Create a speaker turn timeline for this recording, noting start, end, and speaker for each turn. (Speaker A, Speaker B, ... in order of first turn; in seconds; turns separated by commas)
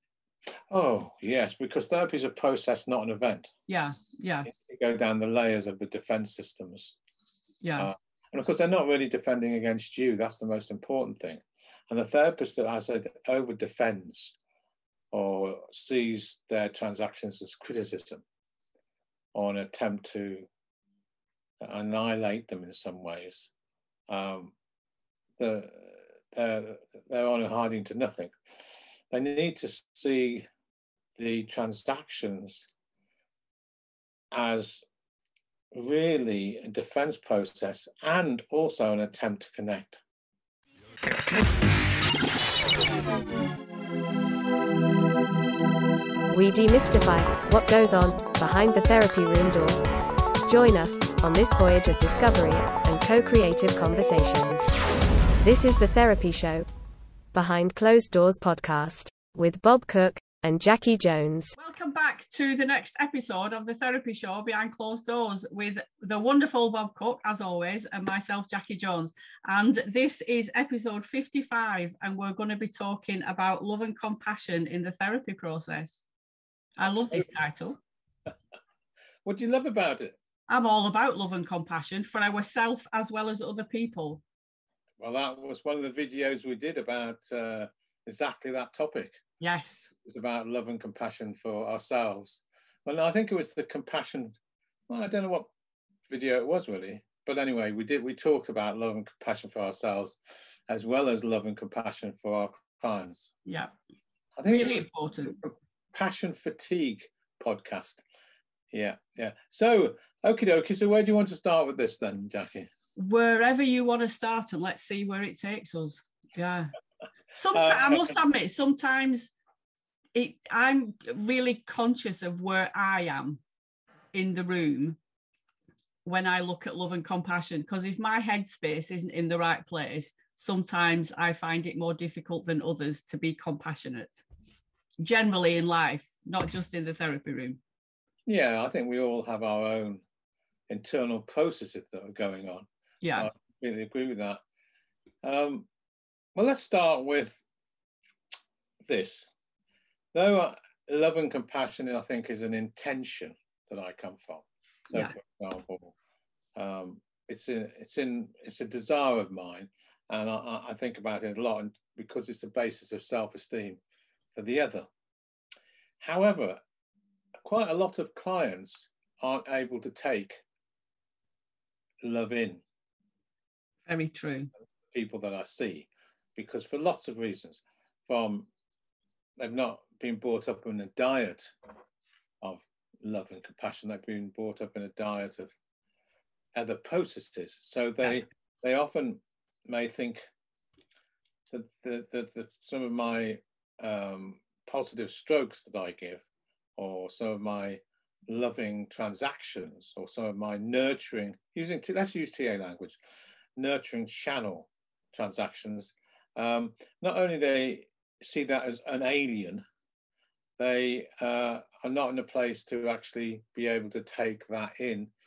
Speaker A: 0.7-3.5, Speaker B: 3.7-4.5, Speaker A: 4.5-7.0, Speaker B: 7.6-7.9, Speaker A: 7.8-14.3, Speaker A: 15.1-18.2, Speaker A: 19.3-20.5, Speaker A: 21.6-23.5, Speaker A: 24.1-24.5, Speaker A: 25.4-30.4, Speaker A: 31.2-32.7, Speaker A: 34.3-34.8, Speaker A: 35.7-40.0, Speaker C: 46.3-49.8, Speaker C: 50.4-54.8, Speaker C: 55.4-56.6, Speaker C: 57.3-61.5, Speaker B: 61.6-76.0, Speaker B: 76.8-77.8, Speaker A: 76.8-77.2, Speaker A: 79.2-80.2, Speaker B: 80.5-84.2, Speaker A: 85.0-89.2, Speaker B: 89.4-89.9, Speaker A: 90.0-94.4, Speaker A: 94.9-95.5, Speaker A: 96.1-103.3, Speaker B: 103.5-103.7, Speaker A: 104.4-108.0, Speaker B: 104.4-105.4, Speaker A: 108.7-112.7, Speaker B: 113.0-116.7, Speaker B: 117.3-119.3, Speaker A: 117.5-118.1, Speaker B: 120.1-123.4, Speaker B: 124.1-125.0, Speaker B: 126.0-134.2, Speaker B: 135.0-137.6, Speaker A: 138.3-140.0, Speaker A: 140.7-144.4, Speaker B: 143.0-143.3, Speaker A: 145.2-145.7, Speaker A: 146.3-147.4, Speaker A: 148.8-149.3, Speaker A: 150.1-155.9, Speaker A: 156.5-163.8, Speaker A: 164.3-164.9, Speaker A: 166.0-166.6, Speaker A: 167.4-170.4, Speaker A: 172.0-172.6, Speaker B: 173.8-174.5, Speaker A: 174.9-178.5, Speaker A: 179.4-181.5, Speaker A: 182.4-185.5, Speaker A: 186.5-190.3, Speaker A: 191.5-196.2, Speaker A: 196.8-203.0, Speaker A: 203.6-209.6, Speaker A: 210.6-215.1